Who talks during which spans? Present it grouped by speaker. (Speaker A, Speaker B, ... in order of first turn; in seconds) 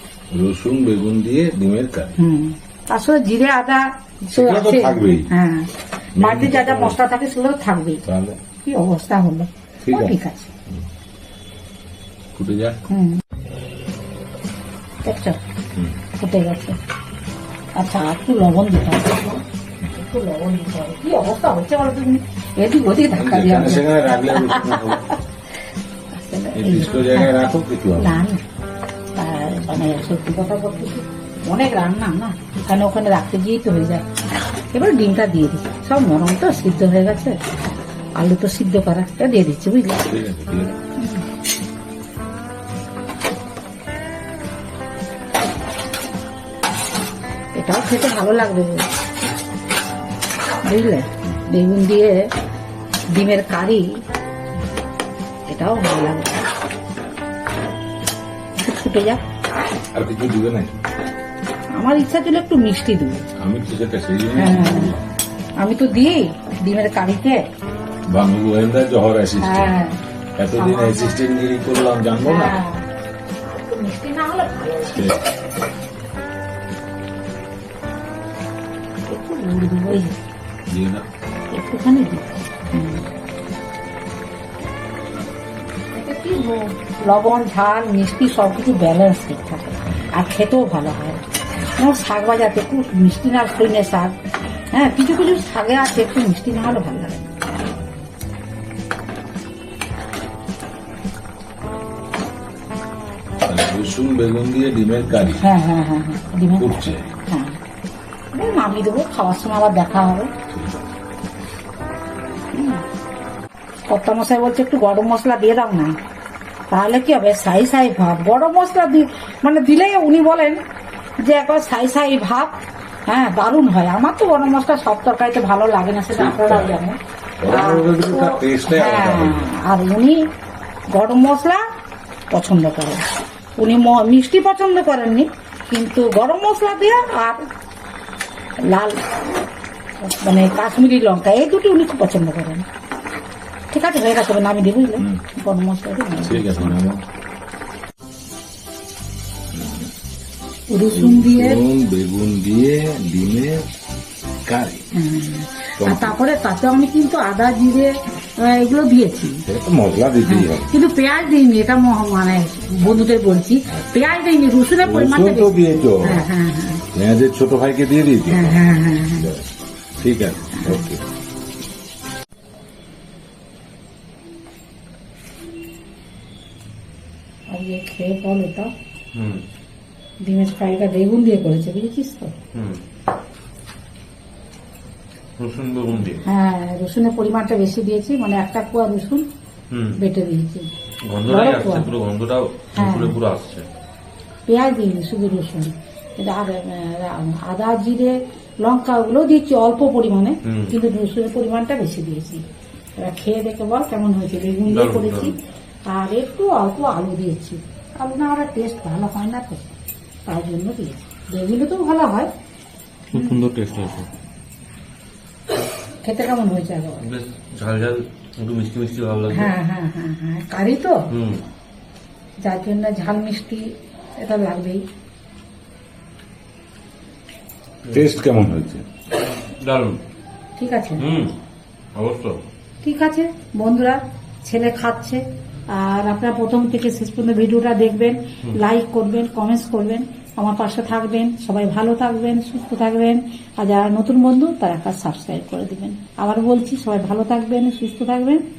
Speaker A: 0.3-2.2, 4.3-5.3, 6.2-7.0, 8.1-8.4, 9.8-10.1, 12.3-12.8, 15.7-16.0, 23.1-25.0, 26.5-28.2, 40.0-40.8, 59.9-60.8, 63.4-65.1, 68.1-69.8, 70.4-72.6, 74.9-75.2, 80.7-81.0, 103.4-105.5, 106.6-107.1, 110.5-110.9, 126.1-126.8, 127.4-129.5, 146.2-147.0, 149.5-149.8, 150.9-153.6, 154.5-154.8, 155.8-156.2, 159.4-160.7, 164.8-166.3, 166.9-171.0, 227.9-228.9
Speaker B: 2.2-8.1, 8.6-10.5, 12.9-13.2, 15.0-15.4, 16.1-16.8, 17.8-25.2, 26.2-27.3, 28.0-28.4, 29.1-34.1, 34.7-37.4, 38.2-40.1, 41.0-41.2, 47.5-48.8, 50.6-52.3, 53.1-53.8, 55.5-56.4, 58.6-59.2, 61.8-63.2, 64.3-64.9, 65.6-67.4, 69.4-70.0, 70.5-71.2, 72.2-72.8, 73.5-75.1, 79.1-80.1, 81.5-83.0, 85.9-91.2, 91.7-94.1, 94.7-97.3, 105.4-107.6, 108.3-110.3, 112.5-112.8, 113.9-115.9, 116.7-120.6, 121.2-122.5, 123.1-127.0, 127.5-130.2, 130.9-131.6, 132.3-133.0, 133.6-137.4, 138.6-138.9, 140.0-142.6, 143.7-146.8, 150.7-151.6, 154.9-159.4, 160.2-166.8, 168.3-169.3, 170.5-170.8, 177.5-178.7, 180.2-182.3, 186.2-189.2, 189.9-190.7, 191.3-191.9, 192.7-193.2, 194.5-202.4, 203.0-205.3, 205.9-209.7, 210.3-212.3, 213.1-213.4, 216.0-217.0, 219.3-221.1, 222.4-223.7, 224.2-224.8, 230.6-231.0, 232.8-248.4
Speaker C: 179.1-179.4, 182.5-182.8, 185.4-186.2, 189.7-189.9, 191.1-193.7, 200.5-200.7, 204.7-205.3, 213.1-214.1, 217.0-219.5, 221.1-221.4, 227.9-228.1, 229.2-230.0, 231.0-231.3, 231.9-232.4